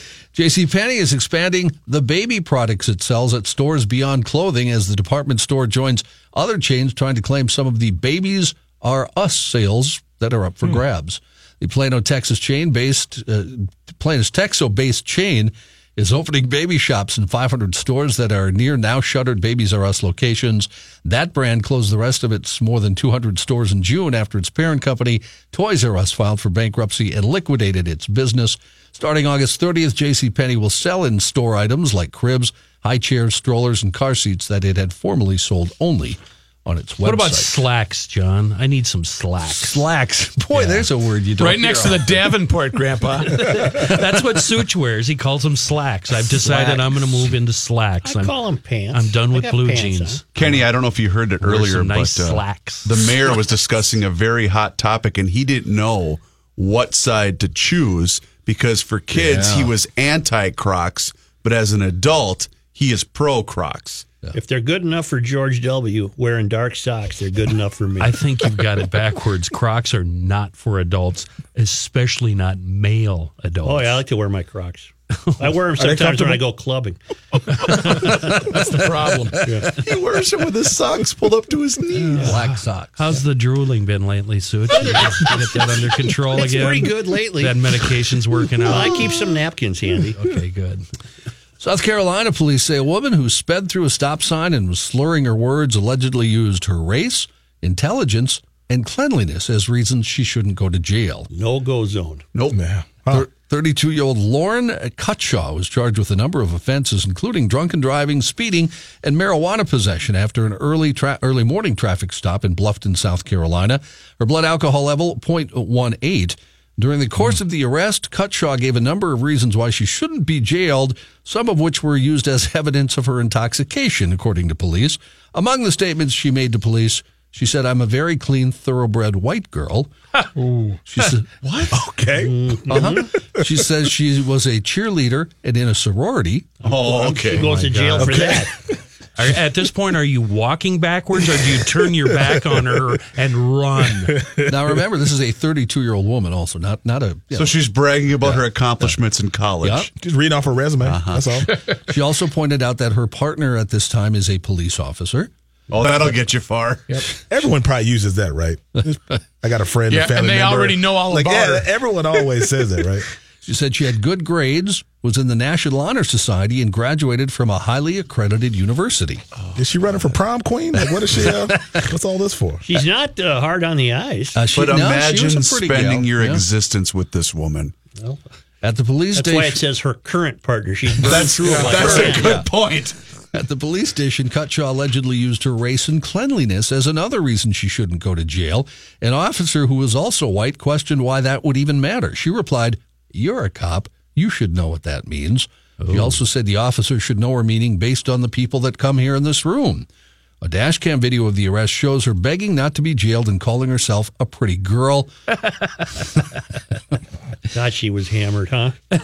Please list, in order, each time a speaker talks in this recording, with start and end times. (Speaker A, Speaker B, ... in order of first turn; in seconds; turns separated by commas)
Speaker A: 0.3-37.6, Speaker B: 37.0-39.9, Speaker A: 39.4-42.2, Speaker B: 40.5-40.9, Speaker C: 41.4-43.6, Speaker B: 43.2-48.3, Speaker A: 46.4-46.9, Speaker D: 48.0-50.2, Speaker B: 48.9-50.6, Speaker E: 50.3-64.1, Speaker B: 51.4-53.4, Speaker A: 59.1-59.7, Speaker D: 64.3-68.2, Speaker B: 68.0-74.0, Speaker D: 73.6-77.0, Speaker B: 75.4-76.4, Speaker D: 77.6-78.4, Speaker C: 77.7-79.4, Speaker E: 79.7-82.3, Speaker A: 82.1-83.0, Speaker B: 82.2-89.1, Speaker D: 84.7-85.7, Speaker D: 86.3-87.6, Speaker D: 88.6-90.2, Speaker B: 90.1-90.8, Speaker A: 91.6-101.3, Speaker D: 101.3-102.2, Speaker E: 102.3-102.6, Speaker F: 102.5-103.3, Speaker A: 103.1-129.9, Speaker C: 130.4-130.8, Speaker A: 130.9-131.2, Speaker E: 131.4-131.8, Speaker F: 131.7-133.4, Speaker D: 132.2-133.1, Speaker A: 132.7-136.6, Speaker E: 136.6-137.5, Speaker D: 136.6-138.5, Speaker B: 137.0-138.4, Speaker B: 139.2-144.3, Speaker A: 144.4-147.7, Speaker E: 147.3-149.9, Speaker A: 148.2-148.9, Speaker A: 149.6-149.9, Speaker F: 149.9-151.5, Speaker E: 150.8-151.4, Speaker A: 151.8-155.3, Speaker E: 155.7-157.0, Speaker F: 157.3-163.1, Speaker C: 159.9-161.7, Speaker A: 163.4-169.2, Speaker F: 169.5-172.6, Speaker A: 170.8-171.8, Speaker D: 172.6-174.4, Speaker A: 174.3-176.4, Speaker E: 174.5-177.7, Speaker A: 178.6-179.6, Speaker D: 179.1-182.3, Speaker E: 181.0-182.9, Speaker C: 181.4-182.1, Speaker A: 183.3-199.8, Speaker B: 195.8-196.2, Speaker A: 200.4-205.1, Speaker D: 207.5-208.8